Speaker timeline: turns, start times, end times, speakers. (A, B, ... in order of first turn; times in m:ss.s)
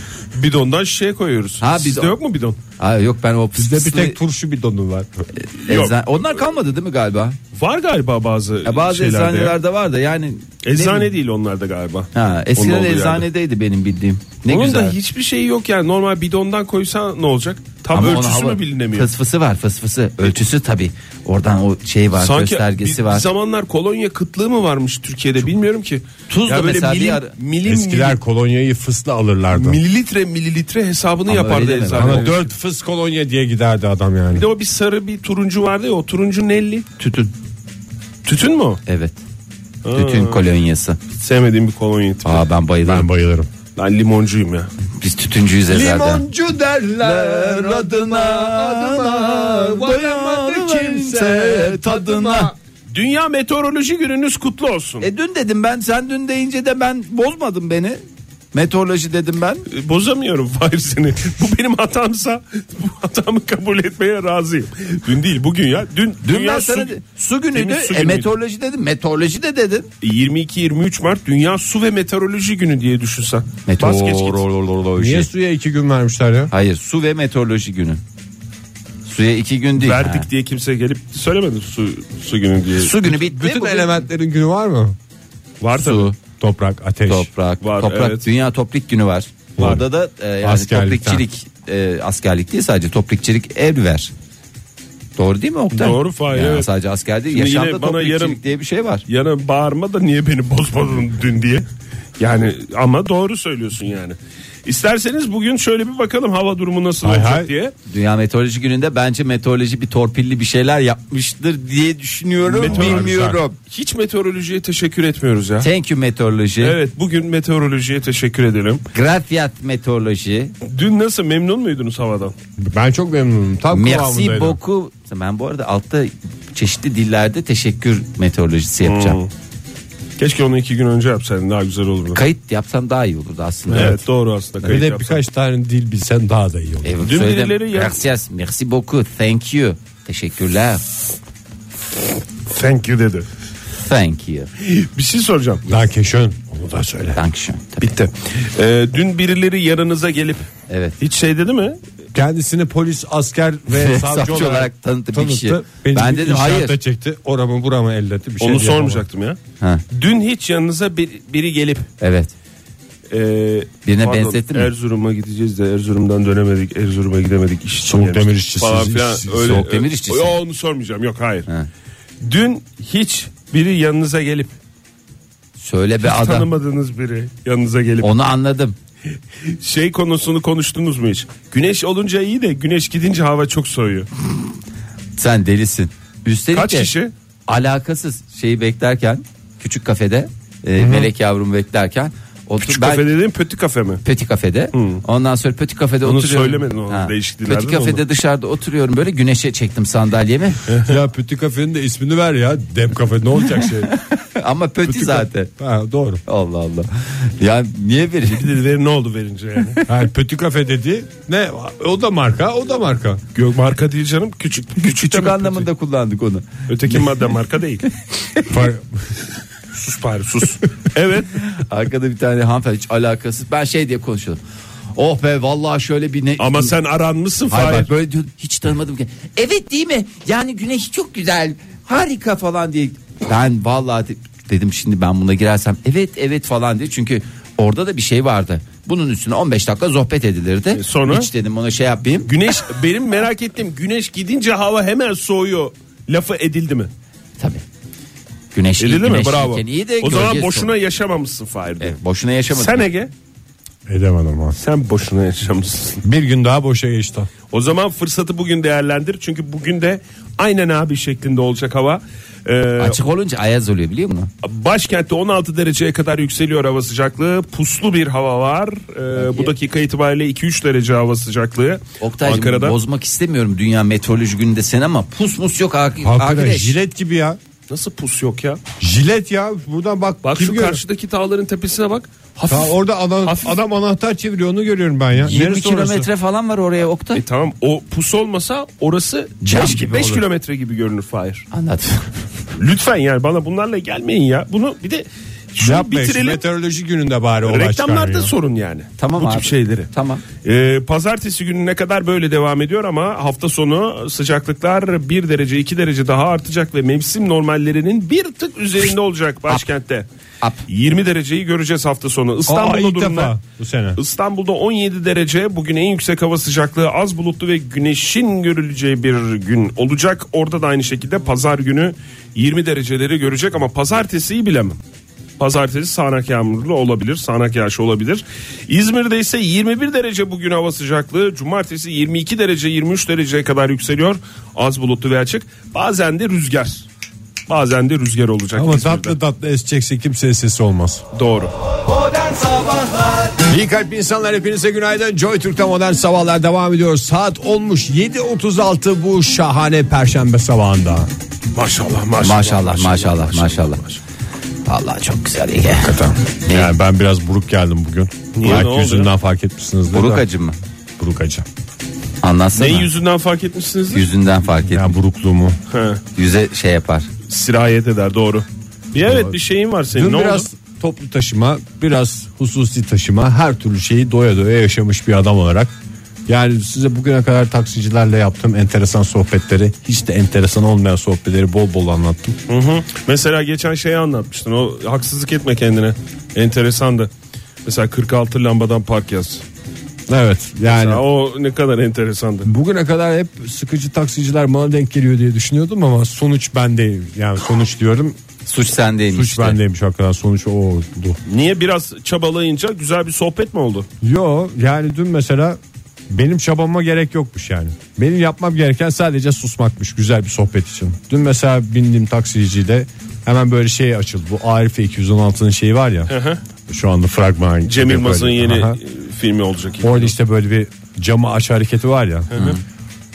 0:00.3-0:02.6 A
0:01.6-0:02.2 B
0:02.8-0:04.2 B
0:03.6-0:05.1 C
0:05.4-0:07.4 B
0:05.6-0:06.2 A
0:07.5-0:09.6 A
0:08.6-0:11.1 B
0:10.6-0:13.2 A
0:12.1-0:15.0 B
0:14.5-0:19.1 A
0:17.9-0:23.3 B
0:22.2-0:28.2 A
0:26.3-0:27.3 B
0:27.6-0:29.8 C
0:29.5-0:32.5 A
0:31.3-0:32.3 B
0:32.0-0:34.5 C
0:34.3-0:36.9 A
0:37.0-0:37.3 B
0:38.2-0:38.8 A
0:38.8-0:39.2 B
0:39.8-0:40.4 A
0:39.9-0:41.0 B
0:41.2-0:42.4 A
0:42.2-0:43.1 B
0:42.8-0:43.5 C
0:43.8-0:44.7 A
0:45.0-0:46.2 B
0:45.7-0:52.5 C
0:47.0-0:52.5 B
0:52.9-0:55.1 A
0:55.0-0:58.0 B
0:58.5-0:59.6 B
0:59.7-1:06.9 A
1:06.2-1:09.9 B
1:07.5-1:08.3 A
1:10.0-1:14.4 A
1:13.6-1:15.3 B
1:15.0-1:16.5 C
1:16.5-1:18.0 B
1:19.0-1:20.2 B
1:19.8-1:23.0 A
1:22.8-1:24.0 B
1:23.0-1:25.0 C
1:25.6-1:26.1 A
1:25.8-1:26.2 B
1:26.4-1:27.3 C
1:27.1-1:34.1 B
1:27.6-1:28.2 A
1:29.6-1:29.8 C
1:30.4-1:31.2 C
1:35.2-1:39.0 B
1:35.7-1:36.7 A
1:37.3-1:38.4 A
1:39.1-1:41.6 A
1:42.2-1:47.7 A
1:47.0-1:47.5 C
1:47.9-1:53.6 B
1:52.5-1:55.7 A
1:52.6-1:53.4 C
1:55.6-1:56.8 B
1:56.6-1:58.8 A
1:58.9-2:00.5 B
2:00.6-2:02.3 A
2:02.6-2:04.6 C
2:03.7-2:09.2 B
2:08.8-2:09.3 A
2:10.2-2:12.2 A
2:12.1-2:14.0 B
2:13.7-2:15.2 A
2:13.7-2:14.0 C
2:14.6-2:17.0 C
2:16.8-2:20.8 B
2:17.0-2:18.0 A
2:22.5-2:23.3 A
2:23.8-2:24.5 B
2:24.6-2:25.6 A
2:25.6-2:27.2 C
2:27.1-2:27.9 B
2:27.8-2:30.5 A
2:30.7-2:31.0 B
2:31.0-2:31.8 A
2:32.1-2:39.0 C
2:33.7-2:36.8 B
2:38.4-2:39.4 A
2:39.9-2:41.9 A
2:42.0-2:42.3 B
2:43.1-2:51.5 A
2:43.8-2:44.7 B
2:47.8-2:49.6 C
2:49.4-2:50.3 B
2:52.2-2:54.5 A
2:55.6-2:56.5 B
2:56.0-2:58.1 A
2:58.0-2:58.7 B
2:59.5-3:04.1 A
3:05.2-3:06.9 B
3:06.5-3:07.1 A
3:07.5-3:13.1 B
3:12.6-3:14.0 A
3:14.0-3:20.6 B
3:14.7-3:15.0 A
3:16.0-3:18.0 A
3:20.7-3:21.0 A
3:20.8-3:23.9 C
3:23.6-3:25.5 B
3:24.8-3:26.2 C
3:26.2-3:28.4 B
3:28.3-3:29.8 A
3:29.9-3:33.2 C
3:33.3-3:35.7 A
3:34.8-3:36.5 B
3:36.7-3:37.8 A
3:38.5-3:39.1 C
3:39.7-3:41.3 A
3:41.5-3:44.4 B
3:44.9-3:46.7 B
3:46.4-3:47.9 A
3:47.5-4:02.3 B
4:00.7-4:01.3 A
4:02.2-4:06.9 A
4:07.4-4:07.6 B
4:08.5-4:10.7 B
4:08.8-4:11.9 A
4:11.8-4:12.8 B
4:12.5-4:13.1 A
4:13.9-4:14.6 C
4:14.6-4:16.0 A
4:16.0-4:17.3 C
4:17.5-4:23.0 A
4:22.8-4:24.3 B
4:24.4-4:32.8 A
4:29.1-4:29.5 B
4:32.0-4:36.8 B
4:36.0-4:37.4 C
4:37.7-4:38.6 A
4:38.8-4:40.8 C
4:40.2-4:43.6 A
4:42.5-4:46.1 C
4:45.2-4:47.2 B
4:47.1-4:51.4 A
4:49.4-4:50.2 B
4:51.5-4:52.0 B
4:52.6-4:56.4 A
4:55.6-4:58.3 C
4:57.4-4:59.9 A
4:59.0-5:00.2 B
5:00.4-5:10.0 A
5:10.7-5:13.4 A
5:12.5-5:14.0 C
5:14.0-5:24.8 A
5:25.4-5:36.8 A
5:37.5-5:39.1 A
5:38.5-5:41.0 C
5:41.1-5:41.5 A
5:43.4-5:51.1 C
5:51.5-5:54.0 A
5:52.2-5:53.8 B
5:54.6-5:56.7 B
5:55.8-6:00.2 C
5:58.4-5:59.1 A
5:59.9-6:00.6 B
6:01.0-6:01.4 C
6:02.2-6:02.9 B
6:02.5-6:04.1 A
6:03.9-6:04.9 B
6:04.7-6:05.6 C
6:05.7-6:06.0 A
6:06.2-6:07.1 B
6:07.3-6:10.4 A
6:09.1-6:09.3 C
6:09.9-6:15.7 C
6:16.3-6:22.4 C
6:22.5-6:27.1 A
6:27.6-6:29.4 A
6:30.1-6:31.0 C
6:30.7-6:32.5 A
6:32.4-6:38.2 C
6:38.4-6:39.6 B
6:39.1-6:41.2 C
6:41.3-6:43.9 A
6:44.0-6:45.6 C
6:46.1-6:56.1 C
6:56.1-6:56.4 A
6:56.7-6:58.8 C
6:57.6-7:00.1 A
6:59.8-7:02.4 C
7:02.3-7:02.6 A